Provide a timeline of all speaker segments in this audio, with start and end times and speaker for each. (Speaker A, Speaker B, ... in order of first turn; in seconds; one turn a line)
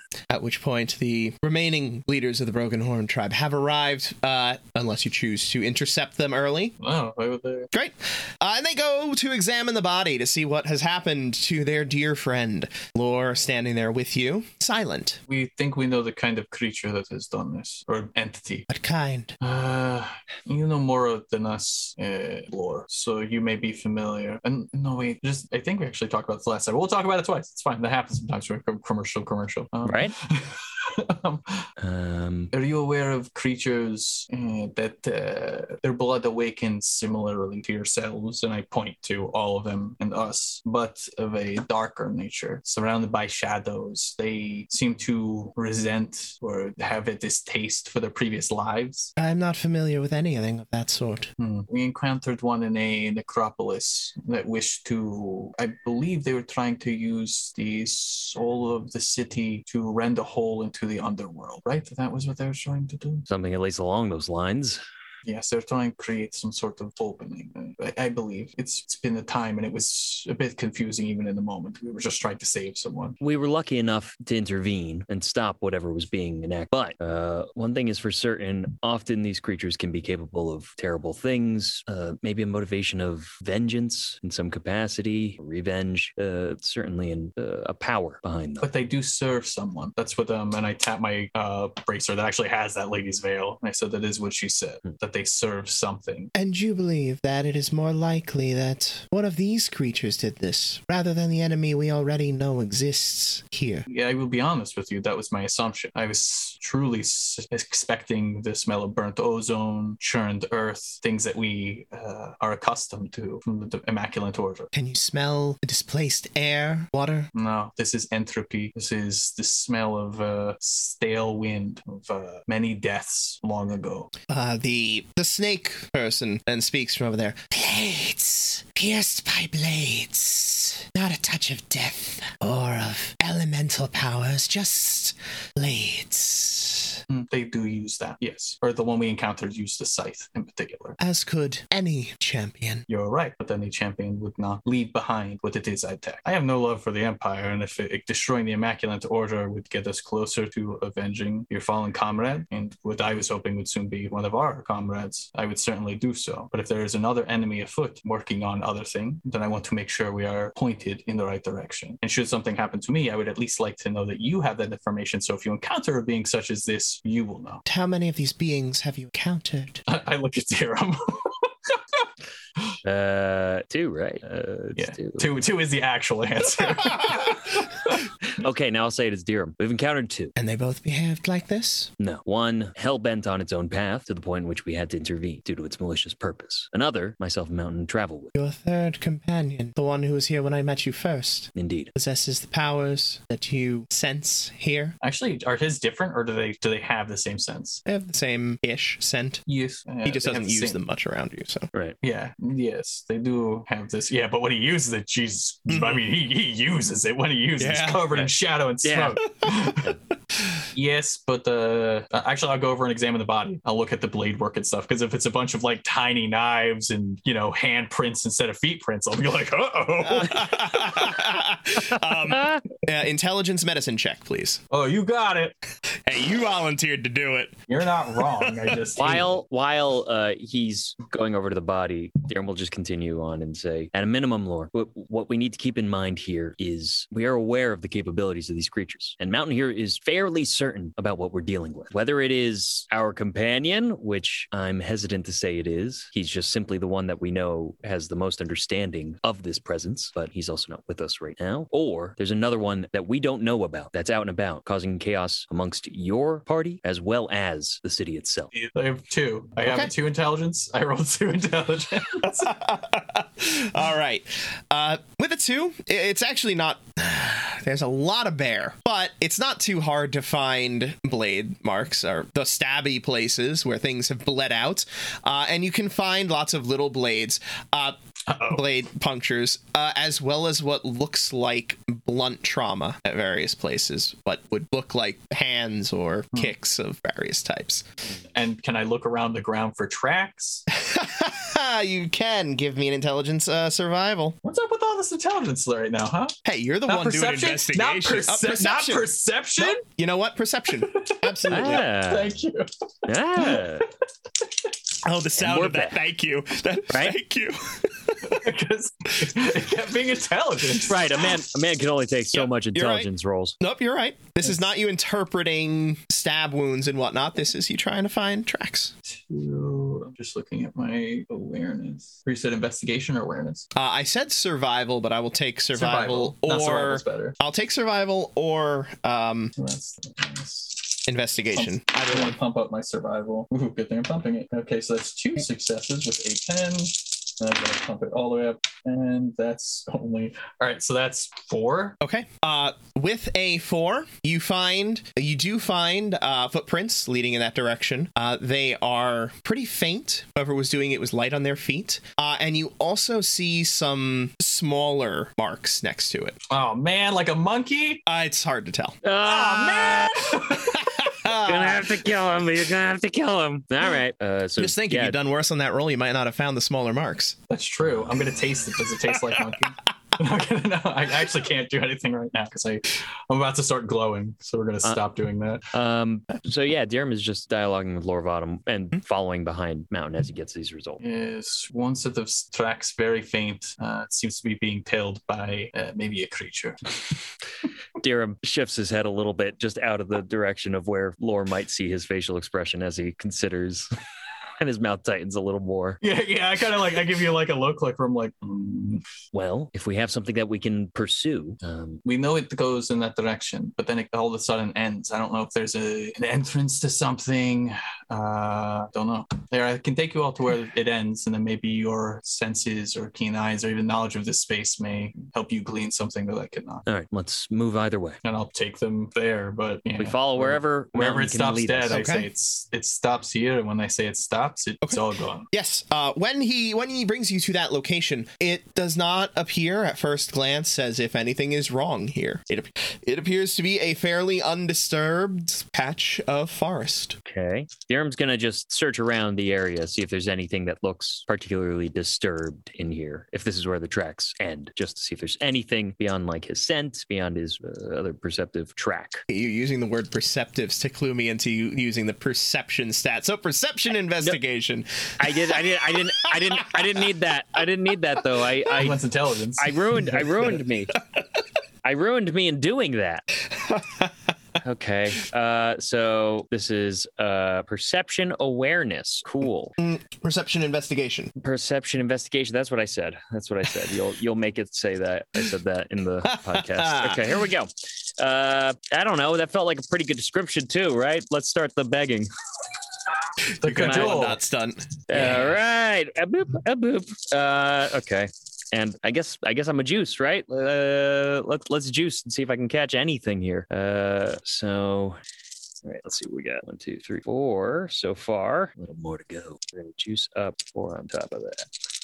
Speaker A: 0.3-6.7
Speaker B: 6.8-7.7
Speaker A: 7.7-15.2
Speaker B: 15.3-18.7
Speaker A: 18.7-19.3
Speaker B: 19.4-31.6
Speaker C: 29.8-30.1
Speaker C: 31.8-32.5
Speaker B: 32.5-49.1
Speaker A: 49.2-51.3
Speaker B: 51.4-63.3
Speaker C: 63.3-64.8
Speaker B: 65.2-73.2
Speaker C: 73.2-88.7
Speaker B: 88.6-96.3
Speaker A: 96.3-103.8
Speaker B: 103.8-114.7
Speaker A: 114.7-117.3
Speaker B: 117.3-124.1
Speaker A: 124.3-137.0
Speaker B: 137.1-141.0
Speaker A: 141.0-142.8
Speaker B: 142.9-167.6
Speaker A: 167.7-169.8
Speaker B: 169.9-172.0
Speaker C: 172.8-175.3
Speaker B: 174.8-178.0
Speaker C: 178.2-180.3
Speaker A: 180.4-181.9
Speaker C: 182.0-188.3
Speaker A: 188.3-194.9
Speaker C: 191.5-191.9
Speaker B: 195.0-197.8
Speaker A: 197.8-199.4
Speaker B: 199.5-200.8
Speaker A: 200.0-201.7
Speaker B: 202.0-209.9
Speaker A: 205.7-206.0
Speaker A: 207.6-208.3
Speaker C: 208.8-209.2
Speaker A: 209.4-209.8
Speaker B: 210.7-221.2
Speaker A: 220.0-224.6
Speaker C: 222.3-222.6
Speaker B: 224.7-225.5
Speaker A: 226.1-227.6
Speaker B: 227.7-229.4
Speaker A: 228.1-228.8
Speaker C: 229.0-258.5
Speaker B: 258.5-262.6
Speaker A: 259.6-259.9
Speaker A: 262.4-277.9
Speaker B: 278.3-278.6
Speaker A: 278.5-287.8
Speaker B: 288.3-290.6
Speaker A: 290.7-294.4
Speaker B: 294.4-296.4
Speaker A: 296.4-301.8
Speaker B: 296.9-299.8
Speaker B: 300.8-302.6
Speaker C: 301.5-302.3
Speaker C: 303.1-303.9
Speaker B: 303.3-303.7
Speaker A: 305.0-308.4
Speaker C: 305.4-306.0
Speaker C: 306.9-307.2
Speaker B: 308.2-311.3
Speaker C: 310.9-313.6
Speaker A: 312.3-313.1
Speaker A: 313.6-318.9
Speaker B: 319.1-323.7
Speaker A: 323.7-329.5
Speaker B: 325.7-327.3
Speaker B: 329.6-342.0
Speaker A: 331.1-332.3
Speaker A: 342.0-356.4
Speaker B: 356.5-358.0
Speaker A: 358.1-359.0
Speaker C: 359.0-360.4
Speaker B: 359.3-360.8
Speaker A: 360.6-362.1
Speaker C: 361.2-365.2
Speaker A: 364.6-367.4
Speaker B: 367.5-375.7
Speaker C: 375.7-381.0
Speaker B: 381.0-386.8
Speaker C: 388.0-393.9
Speaker C: 394.6-396.0
Speaker B: 396.0-399.0
Speaker C: 399.3-402.0
Speaker B: 402.0-416.9
Speaker C: 416.9-418.2
Speaker B: 418.2-425.5
Speaker C: 420.0-422.0
Speaker A: 421.9-422.3
Speaker A: 424.8-437.2
Speaker C: 437.2-449.2
Speaker A: 449.3-457.0
Speaker C: 455.2-459.0
Speaker B: 458.6-459.8
Speaker C: 459.6-461.0
Speaker C: 461.8-463.2
Speaker A: 463.6-464.1
Speaker C: 464.6-469.7
Speaker A: 469.8-471.3
Speaker C: 471.4-482.3
Speaker A: 476.2-477.4
Speaker B: 483.6-484.4
Speaker A: 483.6-485.4
Speaker C: 483.6-484.3
Speaker C: 485.1-495.2
Speaker C: 495.8-501.7